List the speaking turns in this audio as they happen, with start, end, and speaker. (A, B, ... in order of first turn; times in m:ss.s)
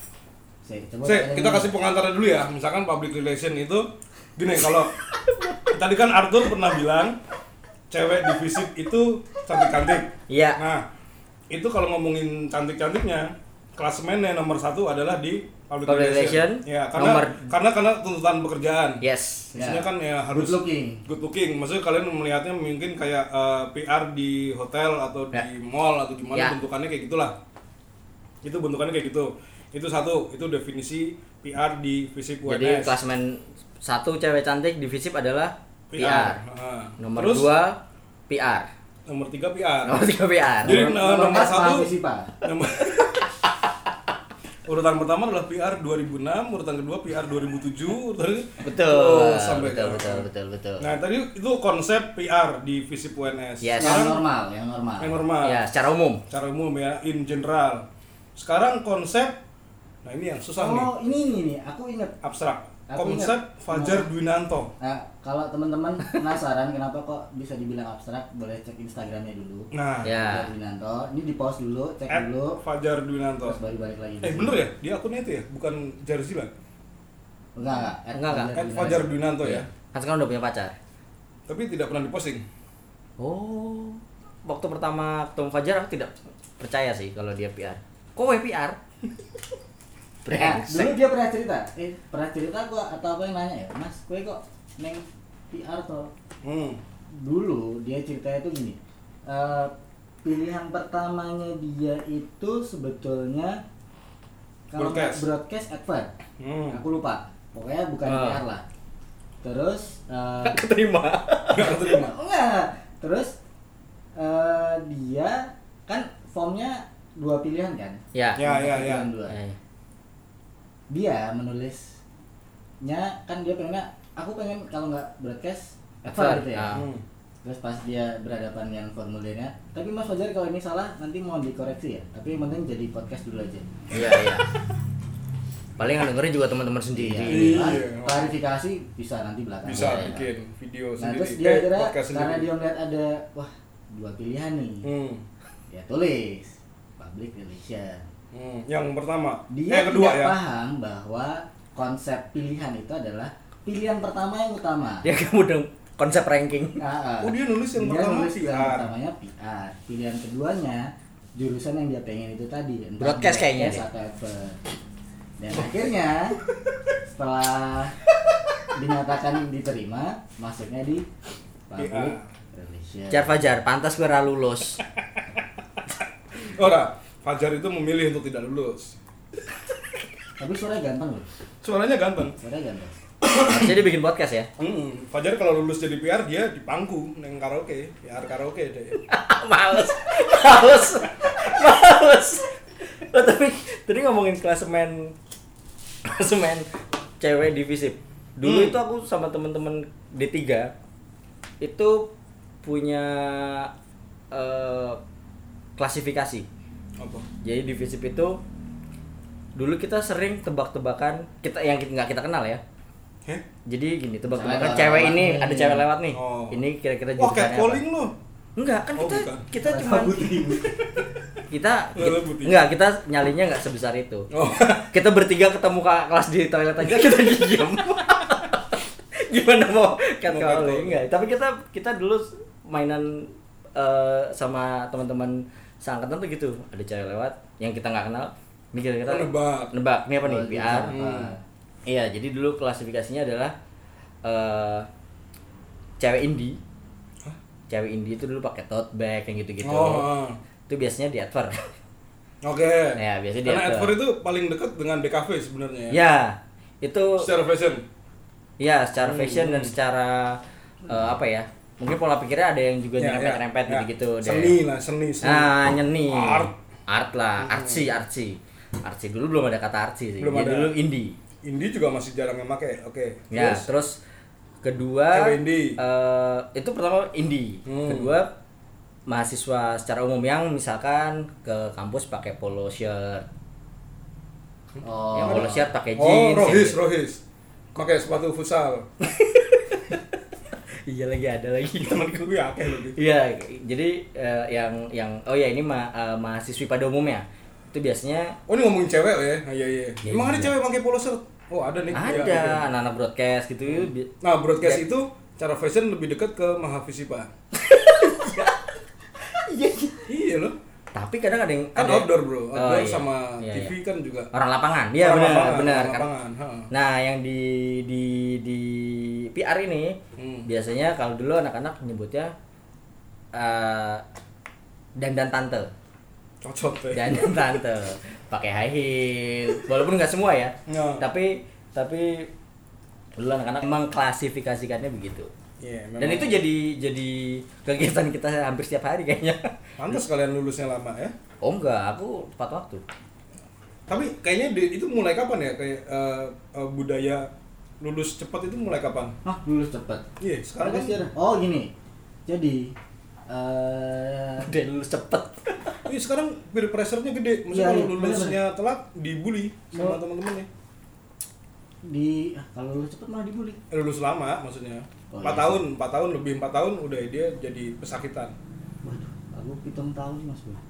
0:00.6-0:01.7 A
0:01.0-0:05.0 B
0:05.7-0:07.2 B
0:07.9-0:10.9 B
0:10.3-0:10.6 C
0:11.5-0:19.0 B
0:15.9-0:17.5 C
0:19.0-0:19.5 C
0:19.5-0:21.0 A
0:19.5-0:27.4 B
0:28.4-0:33.0 B
0:32.5-0:36.4 C
0:35.9-0:37.5 B
0:37.0-0:38.7 C
0:39.1-0:40.0 B
0:39.9-0:40.9 C
0:40.6-0:41.9 B
0:40.6-0:42.4 A
0:42.4-0:43.4 B
0:44.7-0:54.2 B
0:48.6-0:50.9 C
0:53.6-0:54.1 C
0:53.8-0:55.2 A
0:55.0-0:55.6 B
0:55.4-0:56.2 C
0:56.3-0:59.4 B
1:00.0-1:00.9 B
1:00.6-1:02.2 A
1:02.2-1:04.7 B
1:02.9-1:04.1 A
1:04.8-1:12.6 A
1:06.0-1:06.3 C
1:09.7-1:10.2 B
1:10.0-1:10.5 C
1:12.1-1:13.6 B
1:13.4-1:14.6 A
1:14.2-1:16.5 B
1:17.6-1:19.2 A
1:18.1-1:18.6 C
1:18.5-1:19.7 B
1:19.4-1:20.8 C
1:21.5-1:22.4 B
1:23.2-1:28.8 C
1:30.2-1:31.0 C
1:30.3-1:36.1 A
1:36.4-1:36.8 B
1:37.2-1:39.7 A
1:40.2-1:43.6 A
1:44.7-1:46.1 A
1:44.8-1:45.3 B
1:46.4-1:46.8 B
1:46.7-1:48.6 A
1:48.1-1:48.4 C
1:49.4-1:50.6 A
1:50.4-1:51.8 C
1:51.5-1:52.1 B
1:51.8-1:53.4 A
1:54.2-1:59.4 A
1:58.1-1:58.5 C
1:58.4-1:59.1 B
1:59.3-1:59.6 C
2:00.9-2:02.0 A
2:02.8-2:06.8 A
2:06.1-2:06.9 C
2:06.7-2:07.0 B
2:07.4-2:13.7 A
2:13.9-2:14.5 C
2:15.8-2:17.8 C
2:16.9-2:20.3 A
2:17.3-2:18.3 B
2:19.6-2:22.5 B
2:19.7-2:20.1 C
2:21.0-2:24.9 A
2:24.8-2:25.2 B
2:25.7-2:28.1 A
2:28.3-2:30.4 B
2:29.5-2:35.1 A
2:35.0-2:36.8 C
2:36.8-2:44.6 A
2:37.2-2:38.9 B
2:43.0-2:43.8 C
2:45.4-2:46.4 A
2:47.0-2:48.0 A
2:48.7-2:51.0 A
2:51.7-2:53.3 A
2:51.8-2:52.3 B
2:53.1-2:54.8 C
2:56.4-2:59.0 B
3:00.4-3:01.3 A
3:01.6-3:02.4 B
3:02.4-3:03.0 A
3:03.3-3:04.5 C
3:03.3-3:03.7 B
3:04.6-3:09.0 B
3:09.0-3:12.5 C
3:13.0-3:15.1 C
3:16.0-3:16.7 C
3:17.2-3:20.7 C
3:18.4-3:18.8 B
3:21.6-3:22.1 C
3:22.6-3:23.7 C
3:24.3-3:25.0 C
3:25.8-3:26.5 C
3:27.0-3:27.3 B
3:27.4-3:28.4 C
3:29.6-3:32.6 C
3:33.7-3:37.8 C
3:34.3-3:35.8 A
3:36.1-3:36.6 B
3:37.2-3:38.1 B
3:38.6-3:40.6 C
3:39.0-3:39.5 B
3:39.6-3:41.0 A
3:41.5-3:44.3 C
3:42.0-3:42.6 B
3:44.3-3:44.9 B
3:44.9-4:01.0 C
3:50.3-3:51.0 B
3:59.1-3:59.7 B
4:00.2-4:01.4 A
4:00.9-4:01.3 B
4:01.9-4:03.5 C
4:04.2-4:04.9 C
4:06.0-4:06.6 C
4:07.7-4:10.1 C
4:09.6-4:10.4 B
4:10.7-4:11.6 C
4:12.4-4:16.0 B
4:13.0-4:14.0 C
4:15.9-4:17.3 C
4:17.2-4:17.8 B
4:18.6-4:24.6 C
4:19.0-4:19.7 B
4:23.0-4:25.6 B
4:25.2-4:31.2 C
4:26.1-4:26.5 B
4:27.4-4:27.9 B
4:30.2-4:30.7 B
4:31.4-4:33.7 B
4:33.3-4:34.0 C
4:34.6-4:38.3 C
4:35.1-4:35.8 B
4:37.7-4:38.1 B
4:39.1-4:43.3 C
4:44.8-4:45.7 A
4:45.1-4:46.8 C
4:45.3-4:47.2 B
4:47.8-4:48.9 B
4:49.0-4:52.3 C
4:52.0-4:53.0 B
4:53.0-4:58.4 C
4:58.5-5:02.7 B
5:00.0-5:00.5 C
5:01.9-5:04.1 C
5:03.7-5:07.3 B
5:07.6-5:08.6 C
5:09.2-5:10.1 C
5:10.1-5:10.6 B
5:10.9-5:13.7 C
5:11.8-5:14.3 B
5:14.3-5:16.1 C
5:15.0-5:16.7 B
5:16.7-5:22.3 C
5:20.2-5:20.5 B
5:23.3-5:24.0 C
5:25.0-5:25.7 C
5:26.4-5:27.6 B
5:26.9-5:32.3 C
5:30.7-5:31.1 B
5:33.2-5:35.3 C
5:35.6-5:36.4 B
5:36.0-5:39.6 C
5:39.8-5:41.1 B
5:41.4-5:42.8 C
5:43.9-5:47.3 B
5:47.8-5:49.2 B
5:49.2-5:50.0 A
5:50.2-5:51.0 B
5:50.6-5:51.7 A
5:52.3-5:52.8 A
5:53.3-5:54.5 A
5:54.4-5:55.8 C
5:55.9-6:00.5 B
5:57.5-5:58.4 A
5:59.7-6:00.0 A
6:01.8-6:03.6 A
6:03.7-6:08.4 B
6:05.1-6:05.6 A
6:08.8-6:10.6 A